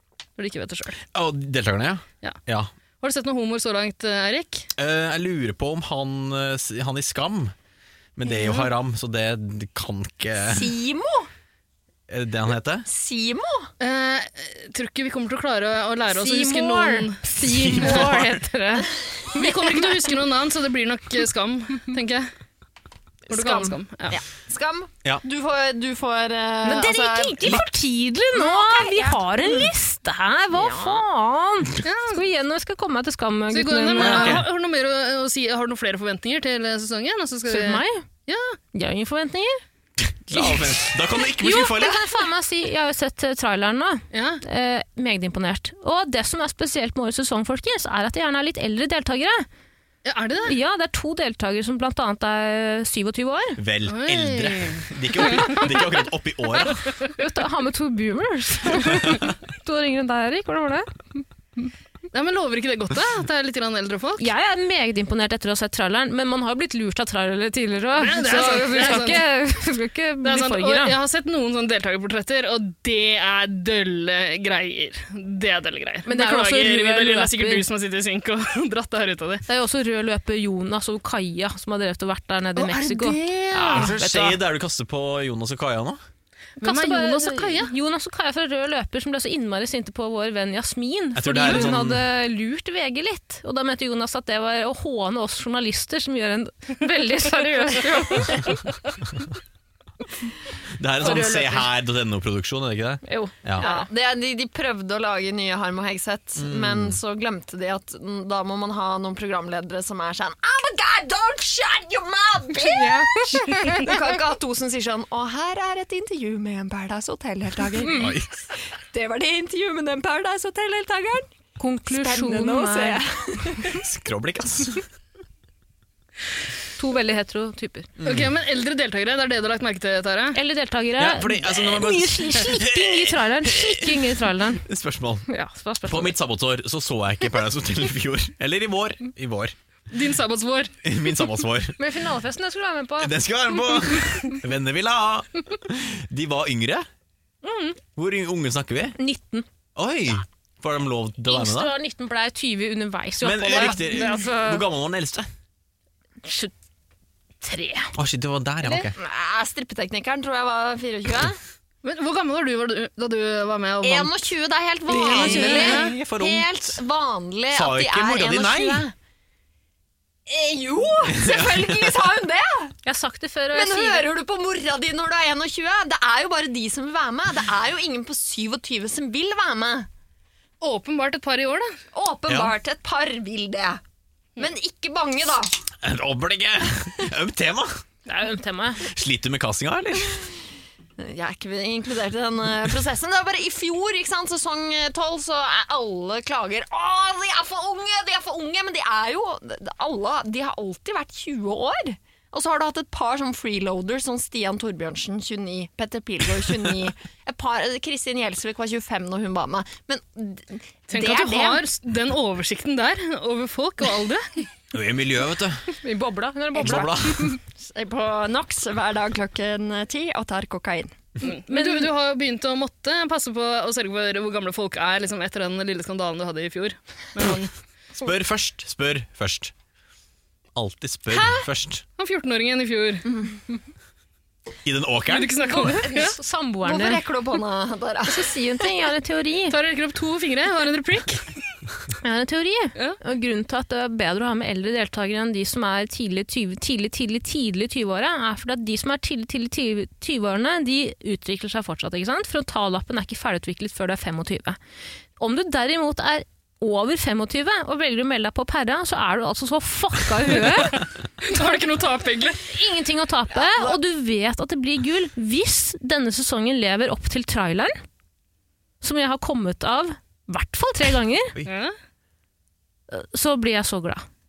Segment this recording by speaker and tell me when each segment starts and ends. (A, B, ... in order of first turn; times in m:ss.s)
0:00.4-0:01.0 A
0:01.1-0:02.7 B
0:03.0-0:04.7 A
0:04.8-0:07.5 B
0:08.2-0:10.7 B
0:08.2-0:08.7 A
0:10.5-0:11.3 C
0:12.1-0:12.9 B
0:12.9-0:13.7 C
0:13.8-0:18.1 A
0:16.1-0:20.0 D
0:17.4-0:18.4 B
0:19.3-0:22.3 A
0:23.3-0:27.7 C
0:23.3-0:24.2 A
0:26.6-0:34.4 D
0:28.3-0:29.7 C
0:30.5-0:31.0 C
0:31.8-0:32.2 A
0:33.5-0:38.6 A
0:34.0-0:34.5 B
0:37.5-0:38.0 D
0:38.7-0:39.6 D
0:40.0-0:42.2 B
0:40.3-0:49.5 D
0:44.1-0:44.4 A
0:50.0-0:50.6 A
0:50.5-0:53.6 D
0:53.6-0:56.8 B
0:53.9-0:55.8 A
0:57.1-1:01.2 D
1:02.1-1:04.3 A
1:04.2-1:11.0 D
1:08.0-1:09.2 A
1:10.2-1:19.4 A
1:16.0-1:17.6 D
1:19.5-1:24.4 D
1:22.6-1:23.7 C
1:23.7-1:26.0 B
1:26.6-1:38.6 D
1:26.6-1:27.7 A
1:31.1-1:32.0 B
1:40.7-1:43.7 B
1:41.0-1:41.7 D
1:43.0-1:43.9 D
1:43.6-1:58.2 C
1:46.4-1:47.0 B
1:52.6-1:54.0 D
1:57.8-1:58.1 D
1:57.9-1:58.3 B
1:58.9-2:01.3 C
2:01.6-2:03.0 D
2:01.9-2:03.8 C
2:03.6-2:04.8 B
2:06.8-2:07.9 D
2:08.0-2:08.3 B
2:08.0-2:10.4 A
2:10.3-2:14.6 D
2:11.0-2:15.3 B
2:15.3-2:16.2 D
2:15.9-2:19.5 B
2:19.9-2:20.7 A
2:20.8-2:21.8 B
2:21.8-2:23.1 D
2:23.0-2:26.9 B
2:23.7-2:24.0 D
2:27.4-2:27.8 D
2:28.0-2:29.0 B
2:29.0-2:29.5 D
2:29.8-2:31.7 B
2:31.3-2:34.6 D
2:33.2-2:35.3 B
2:33.6-2:34.0 A
2:36.2-2:36.5 D
2:37.4-2:38.0 D
2:38.0-2:39.0 B
2:38.6-2:38.9 D
2:39.0-2:41.4 C
2:41.8-2:44.3 A
2:43.8-2:49.0 C
2:44.9-2:45.8 D
2:44.9-2:46.8 B
2:45.2-2:46.0 A
2:47.5-2:48.8 B
2:50.3-2:52.8 C
2:51.1-2:51.9 B
2:52.8-2:54.1 D
2:53.5-2:59.9 C
3:00.6-3:01.8 A
3:01.9-3:03.8 C
3:02.3-3:02.5 B
3:04.4-3:05.5 C
3:05.8-3:07.8 B
3:08.0-3:08.8 D
3:08.8-3:10.3 B
3:11.0-3:31.6 C
3:30.9-3:34.4 A
3:34.7-3:35.7 B
3:35.7-3:37.4 D
3:36.6-3:37.4 B
3:36.6-3:36.9 C
3:37.6-3:41.0 C
3:41.2-3:41.9 D
3:41.2-3:47.5 A
3:48.0-3:49.5 B
3:50.5-3:51.8 B
3:51.1-3:51.4 D
3:52.0-3:53.1 A
3:53.1-3:53.3 C
3:54.6-3:55.3 B
3:55.1-3:56.1 A
3:55.4-3:57.0 D
3:55.9-3:58.3 C
3:58.1-3:59.6 D
3:59.5-4:01.2 A
4:02.0-4:14.6 D
4:15.2-4:20.8 D
4:20.4-4:22.5 A
4:22.5-4:27.8 D
4:23.3-4:23.8 C
4:28.8-4:31.4 D
4:31.4-4:31.8 A
4:32.9-4:34.0 D